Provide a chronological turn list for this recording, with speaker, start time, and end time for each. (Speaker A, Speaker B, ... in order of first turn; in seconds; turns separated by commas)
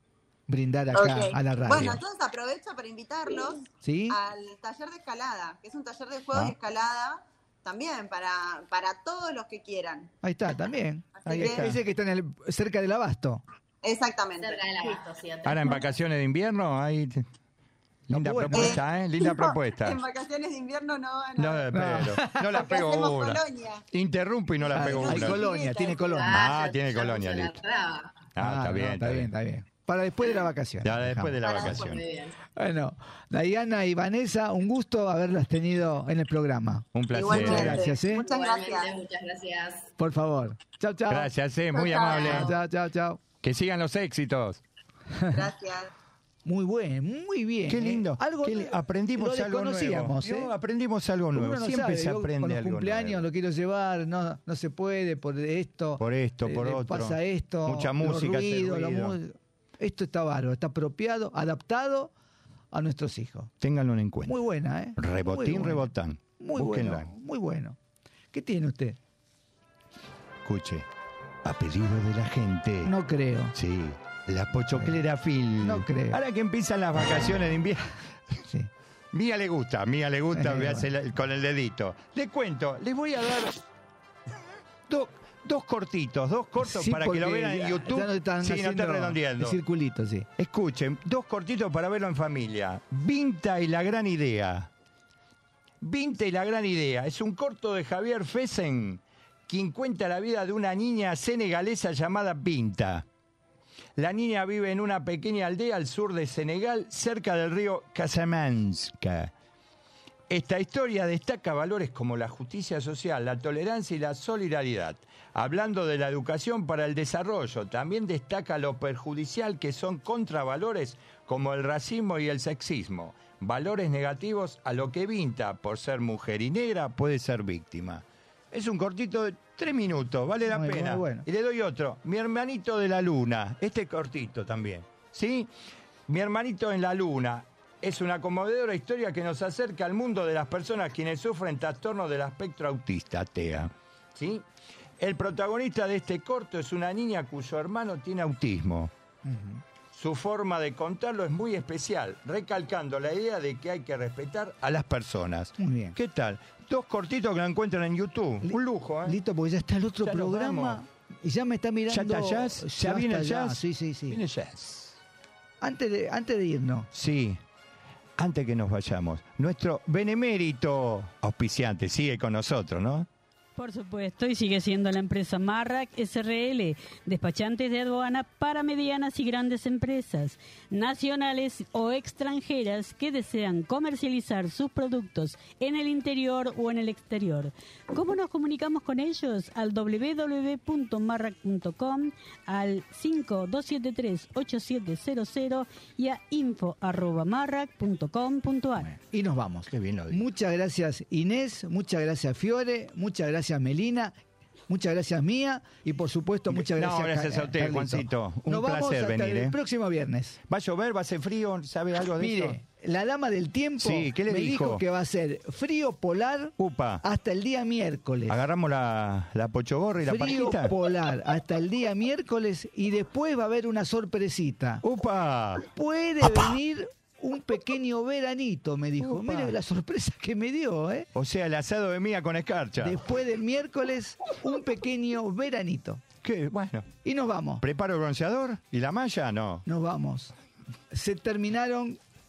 Speaker A: 0.5-2.0, Speaker B: 0.9-10.1, Speaker A: 3.8-4.2, Speaker A: 10.2-13.4, Speaker B: 11.2-11.7, Speaker C: 11.3-11.8, Speaker B: 13.8-14.9, Speaker D: 14.4-15.9, Speaker C: 15.4-17.3, Speaker C: 18.1-20.0, Speaker A: 18.1-18.8, Speaker B: 18.5-21.7, Speaker C: 21.4-25.4, Speaker A: 21.7-22.4, Speaker B: 22.5-23.9, Speaker A: 24.7-26.3, Speaker B: 24.7-26.2, Speaker D: 26.2-28.2, Speaker C: 26.2-27.6, Speaker C: 28.3-29.3, Speaker A: 28.4-31.4, Speaker C: 30.8-32.0, Speaker D: 31.4-32.4, Speaker A: 32.5-38.2, Speaker C: 36.9-37.8, Speaker B: 37.1-38.9, Speaker D: 37.5-39.9, Speaker A: 40.0-41.3, Speaker C: 41.1-42.5, Speaker B: 41.7-42.4, Speaker D: 42.0-42.5, Speaker A: 42.2-43.2, Speaker C: 43.4-44.6, Speaker B: 45.3-45.9, Speaker A: 46.4-50.5, Speaker C: 47.7-53.2, Speaker A: 51.3-62.1, Speaker C: 56.0-59.2, Speaker A: 62.7-63.5, Speaker C: 63.6-64.4, Speaker A: 64.2-67.8, Speaker C: 65.0-67.1, Speaker A: 68.3-69.0, Speaker C: 70.4-70.9, Speaker C: 71.4-72.9, Speaker A: 72.8-73.5, Speaker C: 73.5-77.9, Speaker A: 75.6-76.2, Speaker C: 79.1-83.6, Speaker A: 80.3-80.9, Speaker C: 84.9-89.6, Speaker A: 86.6-90.3, Speaker C: 90.4-94.7, Speaker C: 95.8-103.0, Speaker C: 104.0-109.3, Speaker C: 110.3-135.5, Speaker A: 130.5-131.3, Speaker C: 136.1-144.4, Speaker C: 145.0-148.9, Speaker A: 149.2-149.6, Speaker C: 149.9-159.2, Speaker A: 155.6-156.0, Speaker A: 158.4-164.2, Speaker C: 160.0-160.8, Speaker C: 161.9-165.0, Speaker A: 165.6-166.9, Speaker C: 166.9-167.4, Speaker C: 168.2-173.1, Speaker E: 173.6-198.9, Speaker A: 199.1-204.1, Speaker C: 199.7-200.2, Speaker A: 204.7-210.4, Speaker C: 206.5-209.6, Speaker C: 210.5-212.6, Speaker A: 212.2-218.4, Speaker C: 213.8-214.8, Speaker C: 216.6-217.0, Speaker C: 218.3-220.7, Speaker A: 220.0-224.8, Speaker C: 224.8-225.6, Speaker A: 225.7-231.1, Speaker C: 229.0-229.6, Speaker C: 231.1-233.0, Speaker A: 232.8-236.0, Speaker C: 236.2-236.9, Speaker A: 237.0-237.6, Speaker C: 237.6-239.6, Speaker A: 239.7-240.3, Speaker A: 240.9-242.0